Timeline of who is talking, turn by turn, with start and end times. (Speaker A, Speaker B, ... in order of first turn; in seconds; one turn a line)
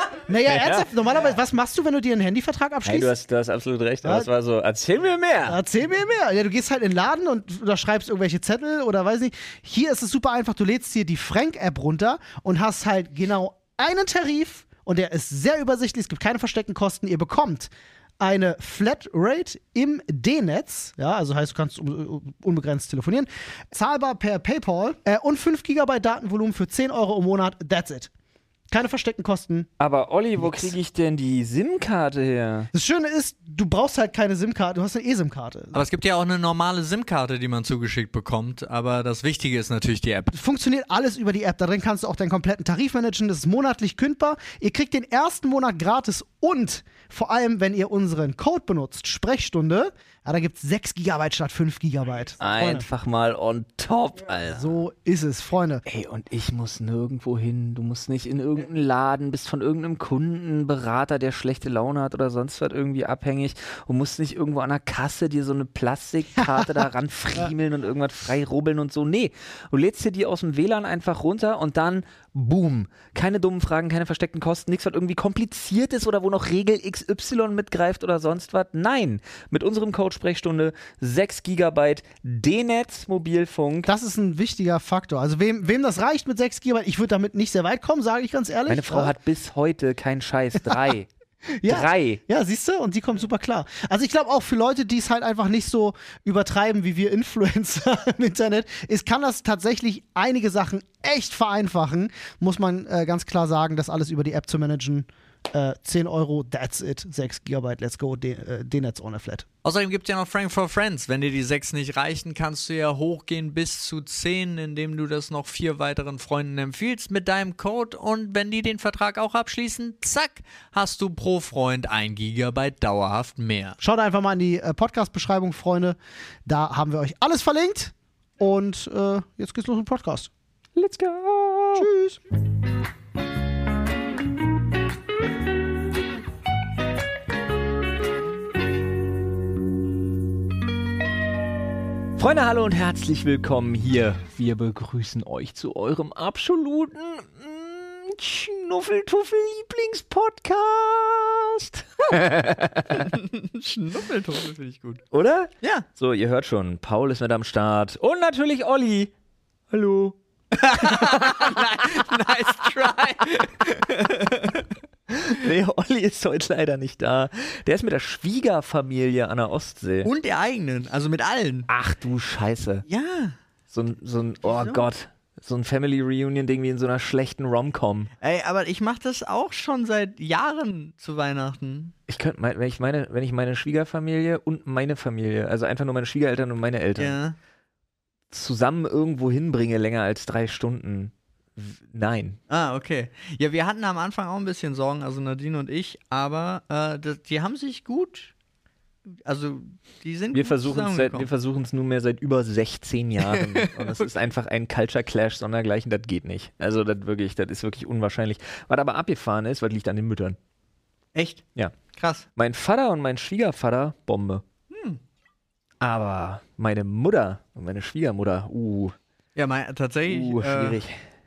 Speaker A: 0.3-3.1
Speaker B: 0.5-0.9
Speaker B: 2.9-5.6
Speaker A: 5.5-28.1
Speaker A: 28.7-29.7
Speaker B: 29.8-32.7
Speaker A: 30.4-30.7
Speaker A: 32.7-35.8
Speaker C: 35.7-40.3
Speaker A: 40.3-52.9
Speaker B: 52.4-54.7
Speaker A: 54.4-55.8
Speaker B: 55.9-83.9
Speaker A: 83.9-89.1
Speaker B: 88.7-91.1
Speaker A: 91.5-109.5
Speaker B: 91.7-92.2
Speaker C: 109.6-123.8
Speaker A: 123.8-130.3
Speaker B: 130.8-131.9
Speaker A: 131.8-132.2
Speaker B: 142.2-153.1
Speaker C: 152.9-155.0
Speaker B: 155.1-159.1
Speaker B: 159.7-160.2
Speaker C: 160.5-164.7
Speaker B: 160.7-162.1
Speaker B: 165.2-170.1
Speaker C: 170.0-171.7
Speaker B: 171.7-172.9
Speaker C: 172.9-173.4
Speaker B: 173.7-178.1
Speaker C: 174.4-174.9
Speaker C: 178.2-181.9
Speaker B: 182.1-187.2
Speaker C: 187.0-187.4
Speaker B: 188.3-192.4
Speaker C: 192.5-198.3
Speaker C: 199.1-201.3
Speaker B: 200.3-210.4
Speaker C: 203.2-204.2
Speaker C: 211.2-212.3
Speaker B: 212.4-214.4
Speaker C: 214.7-215.0
Speaker B: 215.8-219.0
Speaker C: 219.4-220.8
Speaker B: 220.1-220.9